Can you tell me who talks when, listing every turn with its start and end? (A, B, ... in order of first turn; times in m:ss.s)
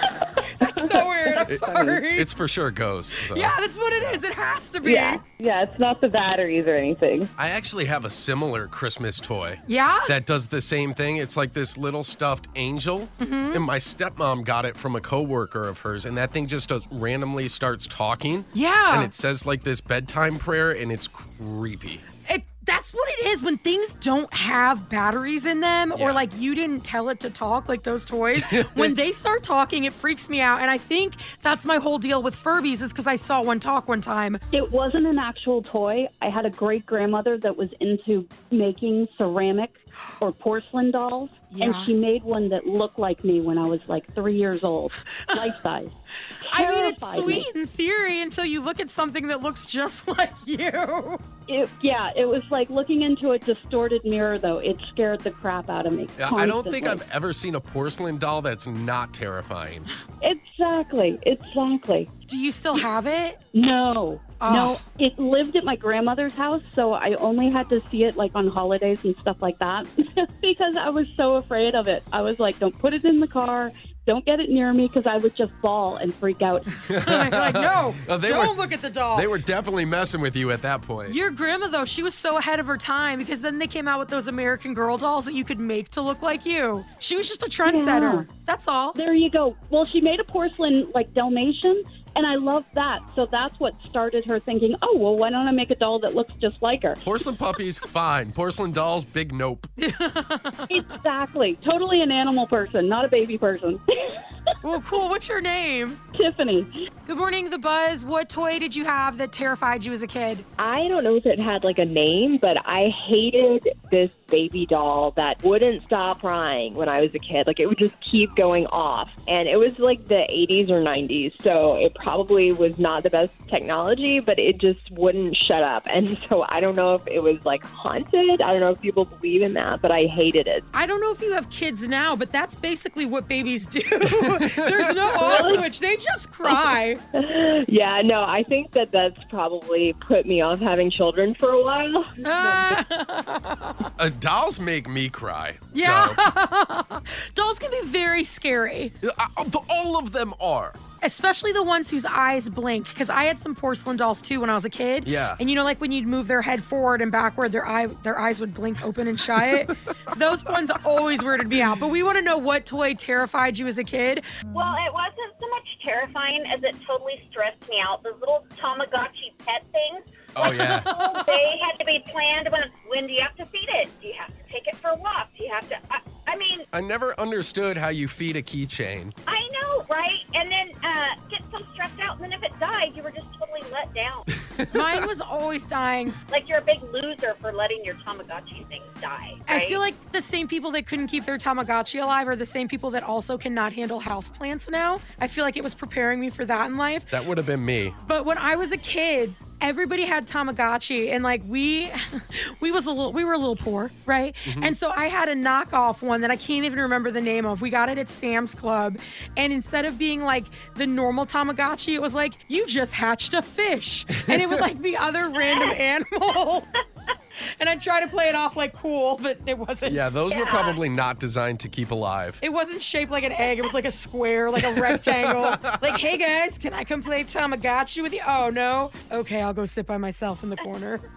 0:00.3-0:02.3 A
0:01.5-0:04.2 B
0:01.6-0:02.0 C
0:03.3-0:05.2 A
0:04.8-0:07.3 C
0:07.4-0:22.0 B
0:09.6-0:10.1 A
0:13.2-0:13.6 A
0:18.5-0:19.1 A
0:22.2-0:34.4 A
0:25.9-0:26.2 B
0:28.3-0:28.9 B
0:34.5-0:46.0 D
0:41.5-0:41.9 A
0:46.5-0:51.2 A
0:46.5-0:47.4 D
0:51.5-0:57.0 D
0:56.2-0:59.9 B
1:00.2-1:02.1 D
1:02.3-1:03.4 A
1:03.5-1:16.7 D
1:04.4-1:04.8 A
1:16.9-1:18.6 B
1:16.9-1:19.3 A
1:19.1-1:21.2 B
1:21.1-1:29.0 A
1:27.6-1:28.3 D
1:28.9-1:37.0 D
1:37.0-1:39.7 B
1:39.8-1:40.8 A
1:40.7-1:43.8 D
1:44.6-1:46.0 A
1:46.1-1:46.7 D
1:47.0-1:50.4 A
1:50.6-2:10.6 E
2:10.7-2:17.0 A
2:14.2-2:15.6 B
2:15.2-2:15.5 E
2:17.1-2:22.1 E
2:22.2-2:23.9 A
2:24.0-2:26.2 B
2:25.7-2:28.9 A
2:29.0-2:30.8 B
2:31.0-2:44.2 A
2:35.0-2:35.4 B
2:44.5-2:50.1 F
2:50.3-2:50.9 B
2:50.4-2:51.5 A
2:50.8-2:56.7 F
2:56.7-2:59.2 B
2:59.3-3:04.3 F
3:04.7-3:06.2 A
3:06.3-3:09.8 F
3:09.5-3:17.1 A
3:17.1-3:18.0 B
3:18.0-3:36.7 A
3:24.4-3:24.7 B
3:34.2-3:34.6 B
3:35.4-3:35.7 F
3:37.6-3:40.1 A
3:39.8-3:42.4 B
3:40.3-3:40.8 F
3:42.4-3:51.0 A
3:44.8-3:45.8 B